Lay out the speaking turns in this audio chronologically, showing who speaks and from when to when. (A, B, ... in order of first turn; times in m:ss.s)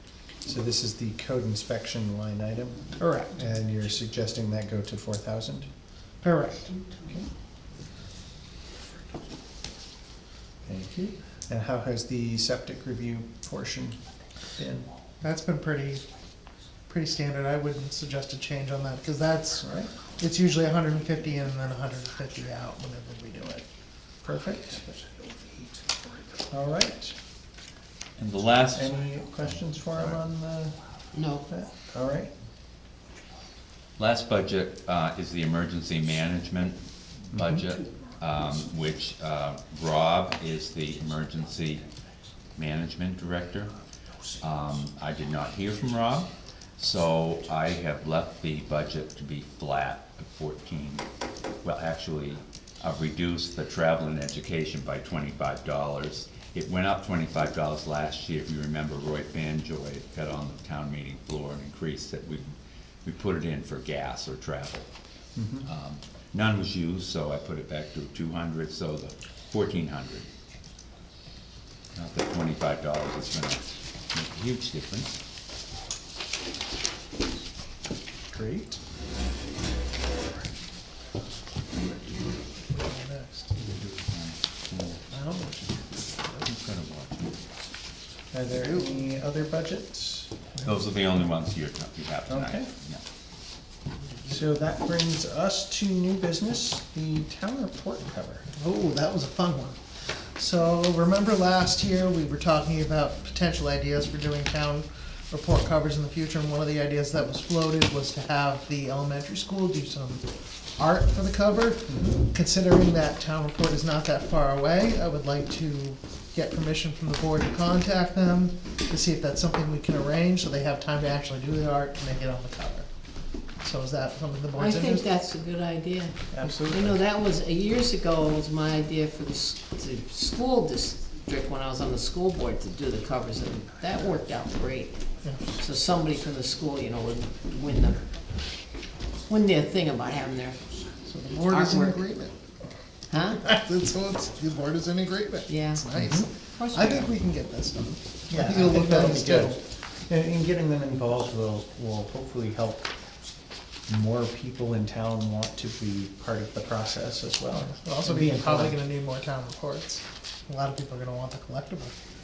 0:00.4-0:05.7 A
0:03.0-0:03.4 B
0:06.2-0:06.8 B
0:10.6-0:14.0 A
0:14.6-0:14.9 A
0:15.2-0:16.0 B
0:16.9-0:23.6 B
0:19.6-0:19.9 A
0:24.2-0:24.9 A
0:26.5-0:27.2 A
0:28.2-0:29.0 C
0:28.7-0:30.8 A
0:31.1-0:31.4 D
0:31.5-0:32.3 A
0:34.0-0:41.8 C
0:42.6-0:43.8 C
0:44.4-0:51.1 C
0:51.6-1:02.5 C
1:03.0-1:04.9 C
1:05.4-1:05.7 A
1:05.6-1:10.3 C
1:12.0-1:15.2 C
1:18.3-1:18.8 A
1:22.6-1:23.5 B
1:23.6-1:25.0 C
1:25.1-1:26.4 B
1:26.4-1:27.4 C
1:28.3-1:30.3 A
1:30.6-1:33.0 C
1:32.3-1:32.7 A
1:34.2-1:38.5 A
1:38.6-2:02.9 B
1:51.9-1:52.2 A
2:03.6-2:05.0 B
2:04.6-2:18.0 D
2:06.3-2:07.0 A
2:19.3-2:20.6 D
2:21.0-2:22.4 B
2:21.5-2:22.0 D
2:23.1-2:23.5 D
2:23.4-2:29.6 B
2:25.5-2:27.1 D
2:25.9-2:26.3 A
2:28.3-2:32.9 A
2:33.9-2:38.8 A
2:37.6-2:42.0 B